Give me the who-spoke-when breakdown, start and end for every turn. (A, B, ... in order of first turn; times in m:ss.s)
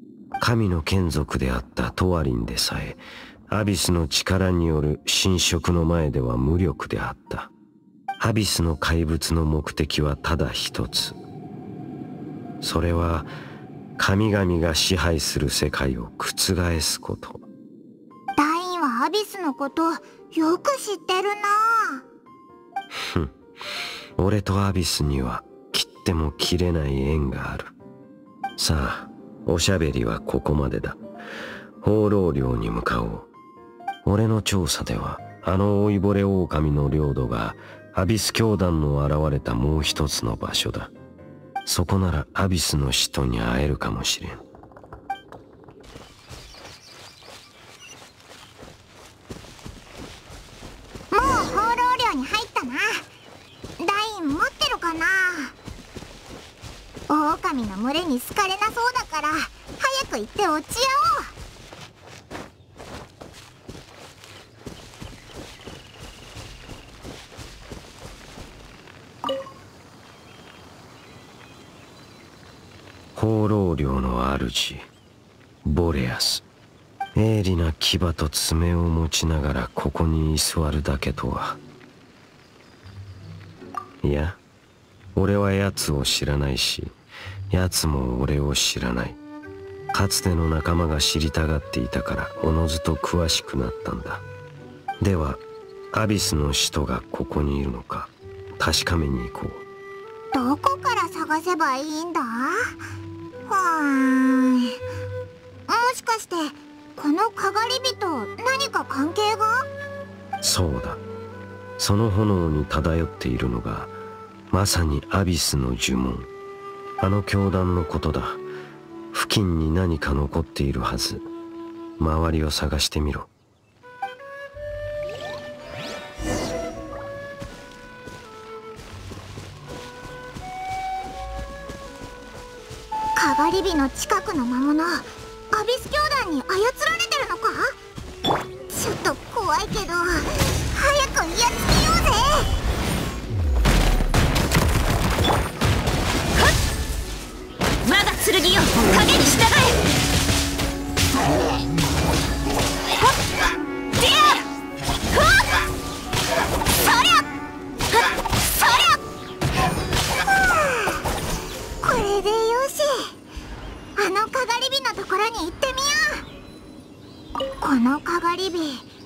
0:00.4-0:07.5 A
0:08.2-0:11.2 A
0:12.6-0:13.3 A
0:14.0-0:17.5 A
0:18.4-0:22.0 B
0:22.9-0:23.3 A
0:24.2-0:27.7 A
0:28.6-0:31.0 A
0:31.8-0:33.3 A
0:34.0-0:40.9 A
0:41.7-0:44.4 A
0:51.1-0:53.1 B
0:53.8-0:55.6 B
0:57.1-1:01.3 B
1:13.2-1:14.9 A
1:15.6-1:16.4 A
1:17.2-1:21.6 A
1:24.0-1:24.4 A
1:25.2-1:27.0 A
1:27.5-1:29.2 A
1:29.9-1:34.2 A
1:35.0-1:39.6 A
1:40.3-1:42.8 B
1:43.5-1:44.8 B
1:45.7-1:49.7 B
1:50.4-1:51.0 A
1:51.8-1:54.0 A
1:54.5-1:56.3 A
1:57.0-1:58.4 A
1:59.1-2:01.3 A
2:02.0-2:03.3 A
2:13.2-2:17.8 B
2:18.7-2:22.5 B
2:27.9-2:29.7 C
2:34.0-2:34.3 C
2:36.9-2:37.2 C
2:40.4-2:41.0 B
2:41.8-2:43.1 B
2:44.0-2:46.3 B
2:47.6-2:48.9 B